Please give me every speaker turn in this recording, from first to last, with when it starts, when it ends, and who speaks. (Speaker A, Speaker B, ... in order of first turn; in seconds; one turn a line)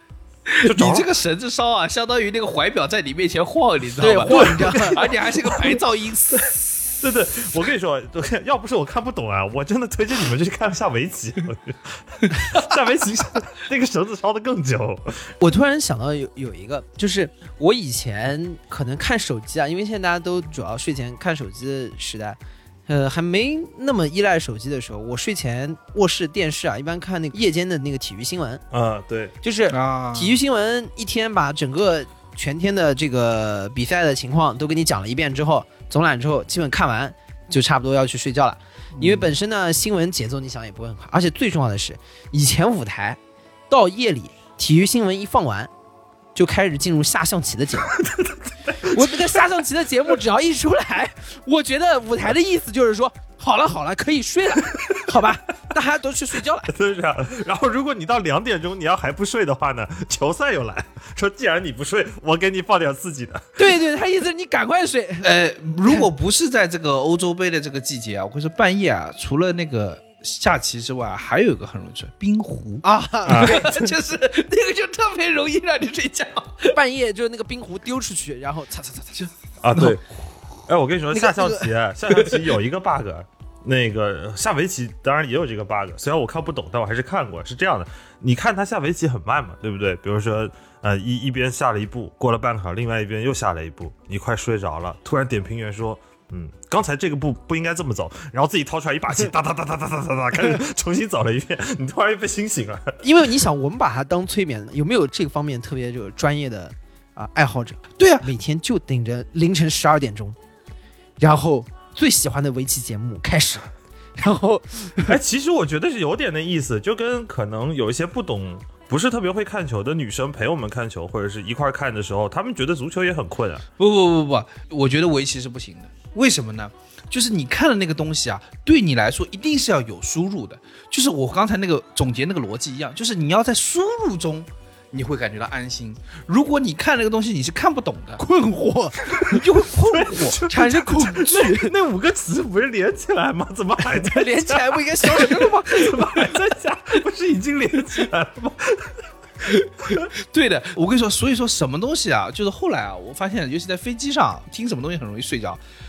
Speaker A: 0.5-6.7
Speaker B: 0.6-1.1
Speaker C: 4.0-5.1
Speaker B: 4.3-5.7
Speaker B: 7.0-15.3
Speaker C: 15.4-28.6
Speaker B: 28.7-29.3
Speaker C: 29.4-43.2
Speaker A: 29.7-30.4
Speaker A: 39.0-39.3
Speaker C: 43.7-45.7
Speaker C: 46.3-48.0
Speaker B: 47.9-49.4
Speaker C: 48.8-56.7
Speaker B: 56.7-63.5
Speaker C: 63.6-65.3
Speaker A: 65.2-76.8
Speaker C: 72.8-73.8
Speaker B: 73.2-73.7
Speaker C: 76.7-79.3
Speaker B: 79.6-80.0
Speaker B: 80.7-103.0
Speaker C: 81.1-81.7
Speaker C: 103.0-110.3
Speaker A: 108.0-108.2
Speaker C: 111.2-115.1
Speaker B: 115.1-123.6
Speaker A: 123.8-138.2
Speaker C: 138.2-139.5
Speaker A: 139.2-140.4
Speaker B: 139.9-149.0
Speaker C: 140.4-141.7
Speaker C: 143.8-146.3
Speaker A: 149.4-155.6